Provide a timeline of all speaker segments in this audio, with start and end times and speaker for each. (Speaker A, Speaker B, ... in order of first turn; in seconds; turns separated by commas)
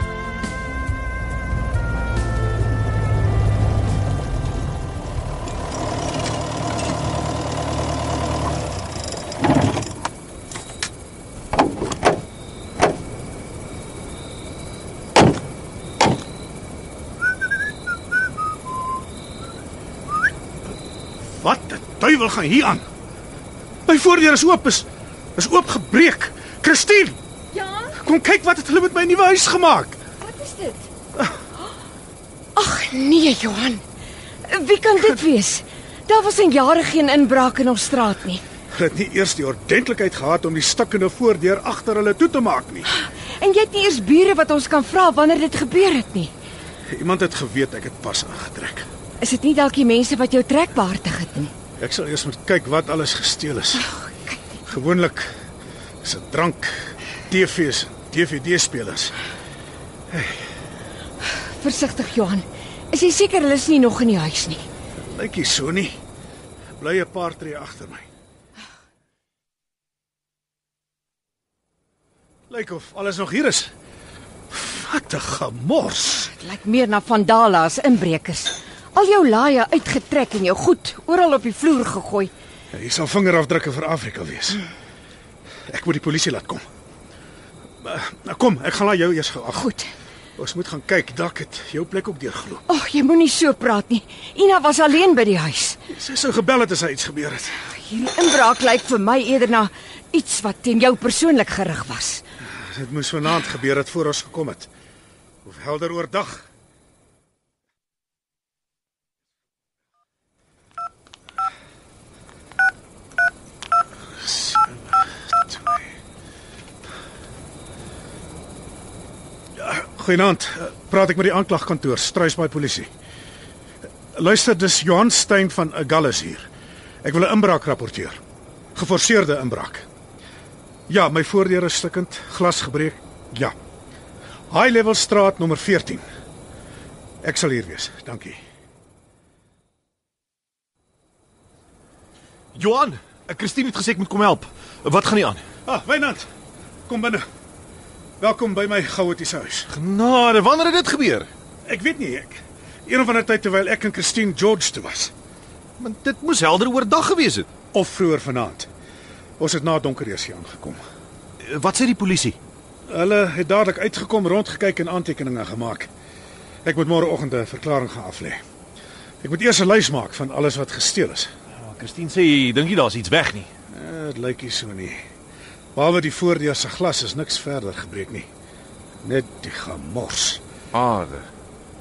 Speaker A: 21.3-22.8, Speaker A: 23.9-27.2, Speaker B: 27.5-27.9, Speaker A: 27.9-30.0, Speaker B: 30.2-30.9, Speaker B: 32.5-33.8, Speaker B: 34.5-38.4, Speaker A: 38.7-42.9, Speaker B: 43.2-46.3, Speaker A: 46.9-48.9, Speaker B: 49.2-51.5, Speaker A: 51.8-53.9, Speaker B: 53.9-54.4, Speaker A: 54.6-55.3, Speaker A: 56.0-59.1, Speaker B: 61.5-64.6, Speaker A: 65.0-66.0, Speaker A: 66.8-68.0, Speaker A: 72.5-73.7, Speaker A: 74.5-76.3, Speaker B: 76.3-82.3, Speaker A: 82.7-84.6, Speaker A: 85.7-86.6, Speaker A: 87.8-89.7, Speaker A: 90.4-92.6, Speaker B: 92.7-95.8, Speaker A: 95.9-97.6, Speaker B: 97.8-102.2, Speaker A: 102.6-104.7, Speaker A: 105.4-106.5, Speaker A: 114.2-115.8, Speaker A: 119.6-122.9, Speaker A: 124.1-126.5, Speaker A: 127.0-128.2, Speaker A: 128.7-129.9, Speaker A: 130.9-133.5, Speaker A: 134.5-136.0, Speaker A: 137.2-138.4, Speaker C: 142.5-145.4, Speaker A: 145.7-146.3, Speaker A: 146.9-147.2, Speaker A: 148.2-149.7, Speaker C: 149.7-151.3, Speaker A: 151.7-155.1, Speaker C: 155.8-157.5, Speaker A: 157.7-158.7, Speaker A: 159.4-160.8, Speaker C: 161.4-162.4, Speaker A: 162.9-165.9, Speaker A: 166.6-168.4, Speaker A: 169.2-171.3, Speaker C: 171.6-173.5, Speaker A: 173.7-175.0, Speaker A: 175.7-178.3, Speaker A: 179.0-180.4, Speaker C: 180.7-181.3